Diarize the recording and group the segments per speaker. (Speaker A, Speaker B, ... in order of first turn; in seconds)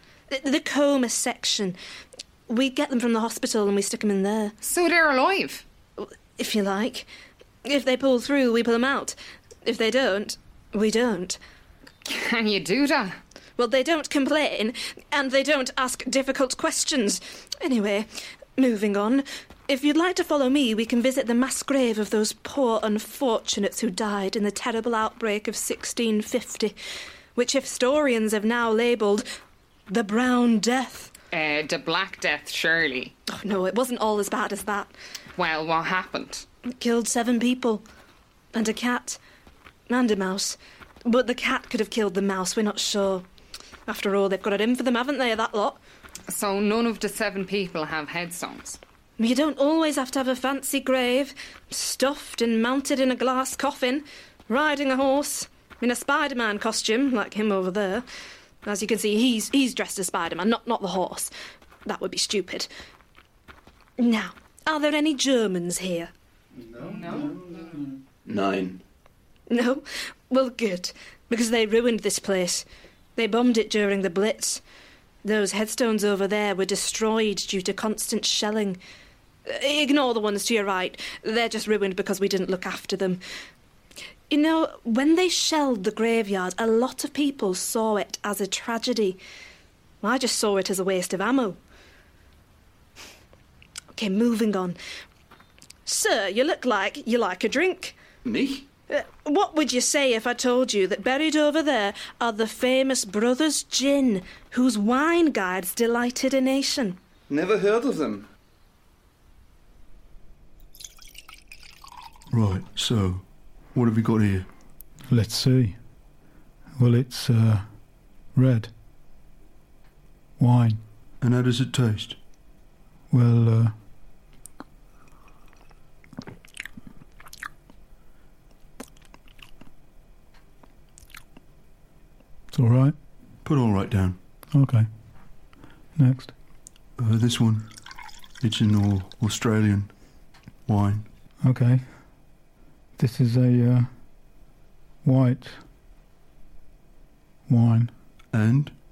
Speaker A: 0.3-1.8, 2.5-4.5, 6.0-7.1, 7.6-11.4, 13.6-26.8, 27.4-29.3, 29.9-31.1, 33.3-34.9, 36.8-37.8, 38.5-39.2, 39.9-43.3, 43.9-45.8, 49.2-58.0, 58.6-61.3, 61.9-62.7, 64.0-66.1, 69.5-72.6, 73.2-74.6, 75.2-78.8, 79.5-83.2, 84.3-89.2, 90.0-91.6, 93.9-94.8, 95.9-97.9, 98.9-107.0
Speaker B: 4.6-5.6, 12.1-13.2, 31.3-33.1, 35.4-36.5, 46.3-48.8, 67.0-67.4
Speaker C: 68.2-68.8, 98.2-98.7, 107.3-108.3, 112.4-114.4, 121.3-122.0, 133.7-134.1, 137.1-137.6, 139.0-139.9, 148.4-148.7
Speaker D: 112.3-114.5, 121.2-122.2, 133.4-134.2, 137.0-137.7, 138.4-140.0, 140.7-141.0, 148.3-148.6
Speaker E: 115.1-115.8, 116.8-118.7, 120.4-120.8, 123.1-123.8, 132.5-133.0, 134.5-134.9, 136.0-136.3, 141.4-142.1, 143.0-143.9, 145.0-145.6, 147.5-147.9